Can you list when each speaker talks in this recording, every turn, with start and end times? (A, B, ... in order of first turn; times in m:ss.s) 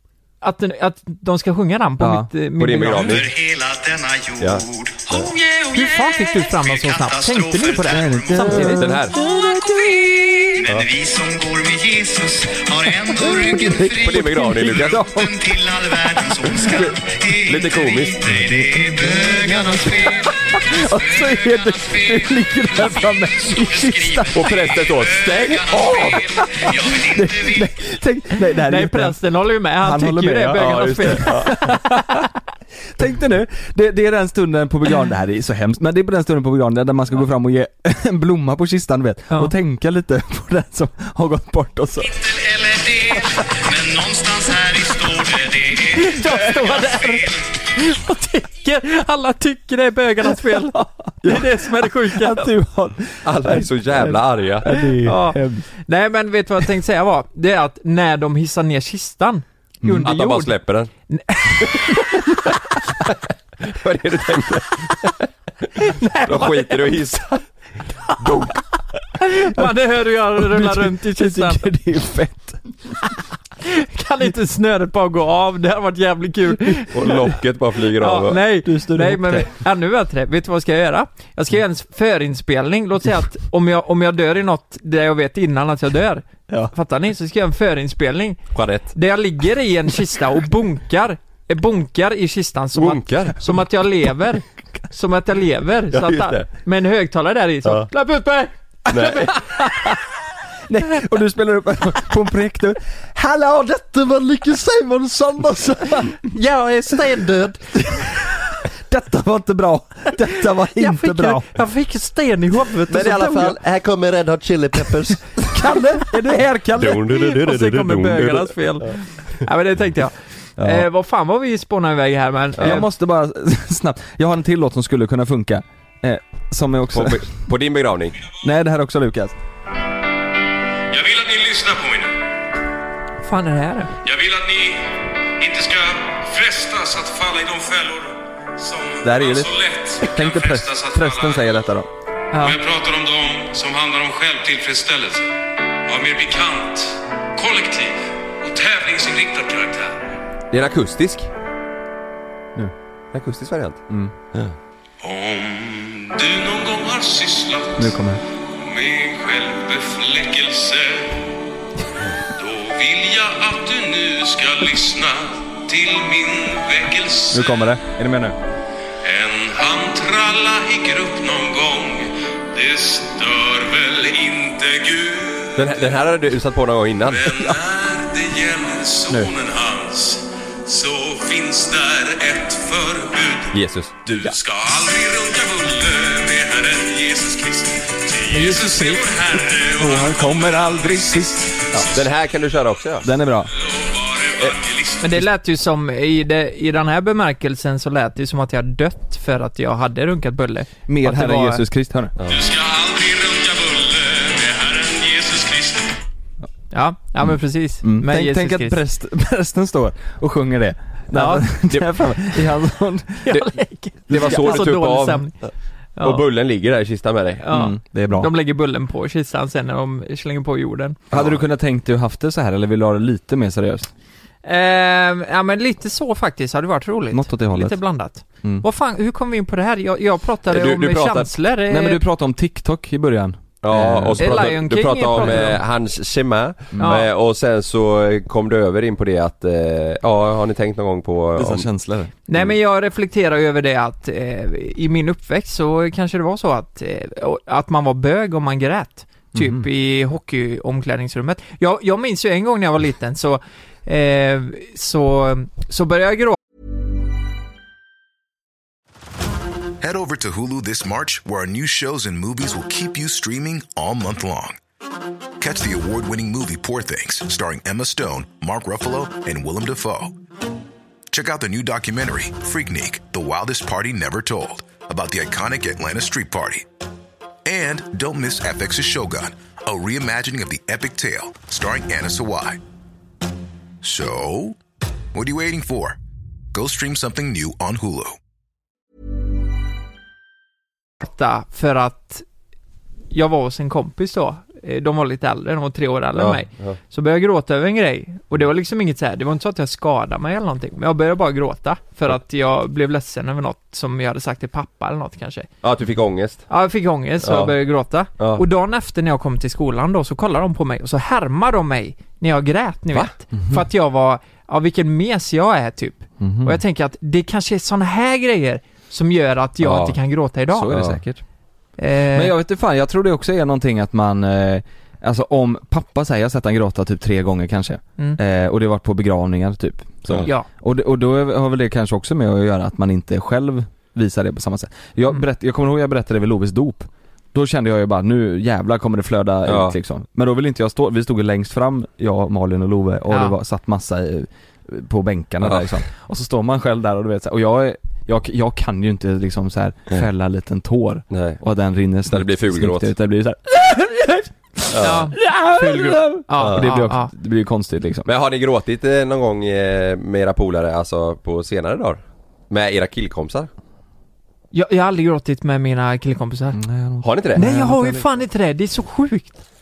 0:00.4-0:03.2 A
0:02.0-0:02.3 B
0:02.6-0:03.3 C
0:03.0-0:08.8 D
0:04.4-0:05.3 C
0:05.7-0:10.6 A
0:07.8-0:09.2 B
0:08.8-0:09.2 C
0:10.6-0:27.7 D
0:13.2-0:15.1 C
0:13.3-0:15.5 B
0:16.6-0:18.4 C
0:19.4-0:24.5 B
0:24.3-0:26.2 C
0:26.1-0:29.2 B
0:28.6-0:32.2 A
0:29.8-0:32.2 B
0:30.5-0:31.5 C
0:32.9-0:42.2 B
0:42.2-0:47.4 D
0:45.9-0:52.5 A
0:51.2-0:55.7 B
0:53.2-0:54.8 C
0:54.7-1:00.5 A
0:59.8-1:00.1 B
1:00.0-1:00.9 C
1:01.1-1:02.3 A
1:01.6-1:02.2 C
1:03.0-1:05.6 C
1:05.8-1:07.2 A
1:06.2-1:07.4 C
1:08.0-1:08.6 A
1:09.2-1:11.7 A
1:10.4-1:12.9 B
1:13.6-1:17.3 A
1:16.5-1:16.9 B
1:16.9-1:18.4 C
1:18.0-1:40.0 A
1:18.6-1:19.6 B
1:28.5-1:28.9 C
1:32.8-1:33.6 C
1:35.9-1:36.5 C
1:38.9-1:39.4 C
1:40.7-1:46.2 B
1:46.2-1:47.9 A
1:47.7-1:51.5 B
1:50.7-1:53.6 A
1:52.9-1:55.5 C
1:55.4-1:56.9 B
1:56.0-2:02.9 A
1:56.8-1:58.9 C
2:00.6-2:00.9 B
2:02.6-2:02.8 C
2:02.6-2:07.3 B
2:06.9-2:08.2 C
2:08.4-2:09.4 B
2:10.9-2:12.1 E
2:13.2-2:13.9 A
2:14.0-2:21.6 E
2:19.0-2:21.9 B
2:22.3-2:22.6 A
2:22.4-2:25.4 E
2:25.9-2:30.1 E
2:30.5-2:31.3 C
2:33.1-2:33.8 C
2:33.9-2:34.1 B
2:35.0-2:38.0 E
2:37.8-2:38.2 B
2:38.5-2:41.4 E
2:42.2-2:47.7 E
2:47.3-2:48.4 B
2:49.0-2:56.0 E
2:55.6-2:57.2 C
2:57.1-3:12.1 E
3:03.5-3:04.0 C
3:08.3-3:09.0 A
3:09.7-3:11.9 B
3:11.9-3:13.1 C
3:13.0-3:13.5 B
3:13.6-3:15.2 E
3:15.0-3:21.6 A
3:20.9-3:22.1 B
3:22.3-3:26.0 E
3:26.7-3:28.8 A
3:27.8-3:33.5 B
3:31.1-3:31.5 A
3:33.2-3:36.2 A
3:34.1-3:37.4 C
3:34.1-3:34.8 B
3:37.4-3:41.0 A
3:37.5-3:38.3 B
3:41.1-3:41.4 C
3:41.1-3:43.9 B
3:44.4-3:52.0 A
3:47.1-3:47.8 B
3:50.5-3:51.3 C
3:51.7-3:54.6 B
3:53.6-4:01.7 C
3:54.2-3:55.6 A
3:55.2-3:55.5 B
3:56.7-3:57.0 B
3:56.8-3:57.1 A
4:01.4-4:02.1 B
4:02.3-4:16.4 A
4:09.3-4:09.7 B
4:19.8-4:24.6 F
4:25.4-4:30.2 F
4:31.1-4:36.7 F
4:37.4-4:42.6 F
4:43.8-4:44.6 F
4:45.1-4:46.0 F
4:46.5-4:48.2 F
4:51.0-4:52.2 A
4:53.1-5:05.5 A
4:56.2-4:56.8 C
5:05.6-5:06.5 C
5:06.5-5:20.9 A
5:07.2-5:07.6 C
5:08.2-5:08.4 C
5:13.4-5:13.6 B
5:16.2-5:16.6 B
5:19.6-5:20.0 C
5:20.5-5:21.2 B
5:21.8-5:22.3 A
5:22.1-5:58.1 B
5:39.4-5:39.8 C
5:43.1-5:43.4 A
5:51.1-5:51.4 C
5:52.1-5:52.9 C
5:54.7-5:55.0 C
5:54.8-5:57.1 A
5:56.4-5:56.6 C
5:58.1-6:03.5 C
6:04.5-6:06.6 A
6:06.5-6:08.1 B
6:07.0-6:07.4 C
6:07.4-6:09.4 A